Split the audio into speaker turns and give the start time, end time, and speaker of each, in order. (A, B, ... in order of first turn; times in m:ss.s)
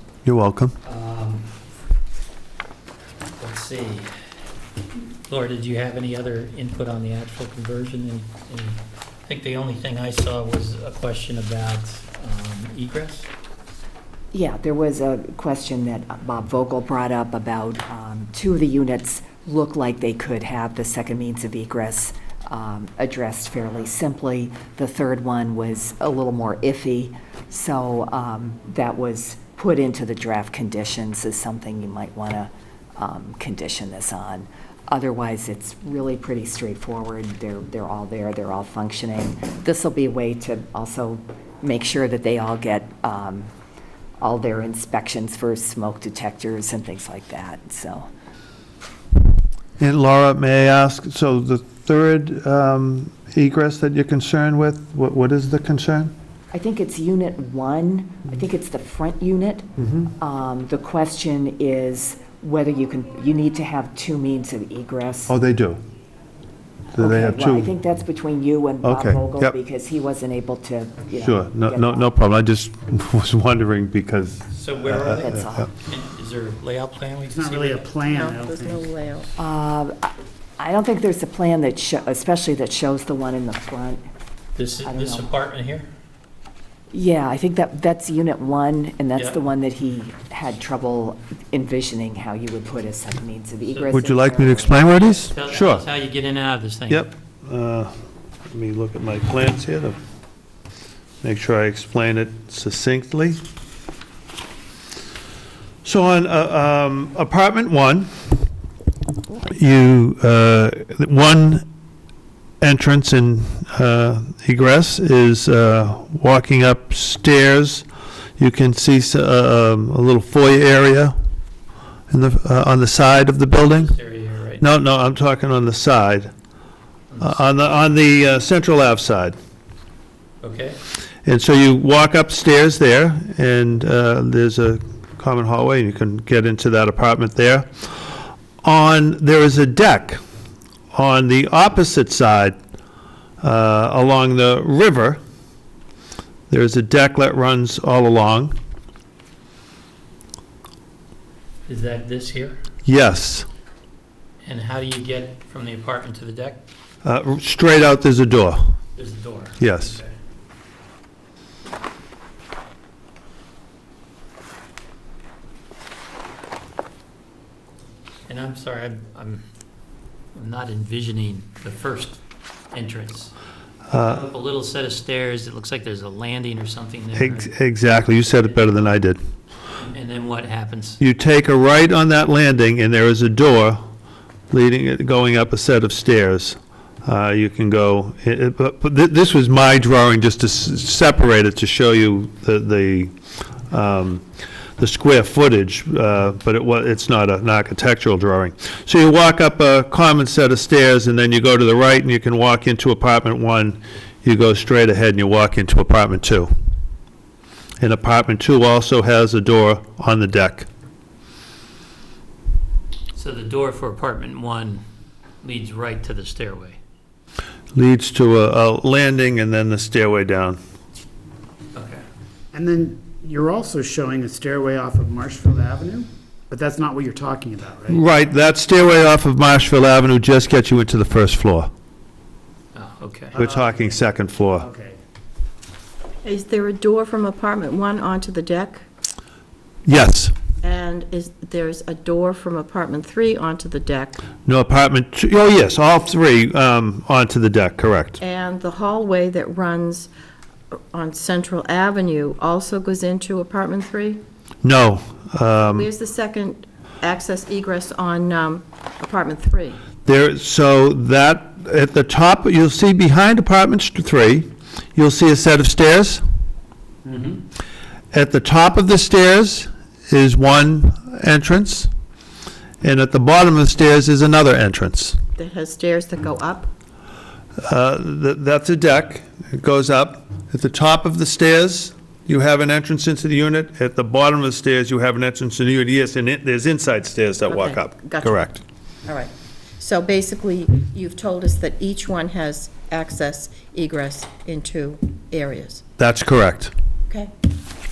0:00.2-0:00.7 A
0:00.8-0:01.5 B
0:03.4-0:04.1 B
0:05.3-0:13.3 B
0:14.3-0:43.5 C
0:44.2-0:48.1 C
0:49.8-0:56.1 A
0:56.5-0:59.7 C
0:59.8-1:00.1 A
1:00.2-1:05.3 C
1:05.3-1:05.8 A
1:06.9-1:07.7 A
1:07.0-1:12.1 C
1:08.8-1:09.5 A
1:11.2-1:15.7 A
1:14.5-1:17.9 B
1:15.2-1:15.7 C
1:17.3-1:18.8 D
1:18.1-1:19.3 E
1:19.4-1:24.0 C
1:24.6-1:25.9 B
1:24.8-1:25.3 C
1:26.9-1:35.1 C
1:33.7-1:33.9 B
1:33.9-1:35.8 A
1:35.3-1:37.1 B
1:36.9-1:37.9 A
1:38.5-1:40.0 A
1:41.2-1:43.4 A
1:45.8-1:48.3 A
1:49.3-1:51.6 A
1:52.6-1:57.8 A
1:58.4-2:01.1 A
2:02.1-2:03.9 A
2:03.5-2:04.6 B
2:04.6-2:06.3 A
2:07.1-2:07.4 B
2:07.2-2:09.4 A
2:10.4-2:10.8 B
2:11.2-2:20.2 A
2:20.9-2:22.6 A
2:23.4-2:25.2 A
2:26.5-2:28.6 A
2:31.6-2:32.6 B
2:32.8-2:33.5 A
2:34.4-2:36.6 B
2:37.0-2:38.7 A
2:39.0-2:40.1 B
2:39.6-2:39.9 A
2:48.3-2:49.4 B
2:50.3-2:52.2 B
2:52.7-2:53.3 B
2:53.9-2:54.2 A
2:54.0-2:57.5 B
2:57.2-2:59.2 A
2:58.4-2:58.8 B
2:59.8-3:01.0 B
3:01.0-3:03.8 A
3:04.5-3:13.1 A
3:13.7-3:14.2 A
3:14.8-3:26.5 A
3:27.8-3:30.7 A
3:33.1-3:34.8 B
3:35.4-3:36.8 B
3:37.7-3:40.6 A
3:41.7-3:42.0 B
3:42.5-3:48.0 D
3:47.9-3:51.7 A
3:52.7-3:53.4 B
3:53.3-3:55.0 D
3:53.4-3:54.6 A
3:56.2-3:58.8 E
3:59.8-4:00.3 A
4:00.6-4:04.2 E
4:04.4-4:08.2 A
4:08.2-4:10.1 E
4:10.9-4:14.2 E
4:14.6-4:15.9 A
4:15.7-4:19.8 E
4:20.0-4:26.2 A
4:28.1-4:31.9 A
4:32.8-4:35.2 A
4:35.4-4:36.7 E
4:37.6-4:48.6 A
4:47.4-4:48.5 E
4:49.1-4:55.8 E
4:56.0-4:56.7 A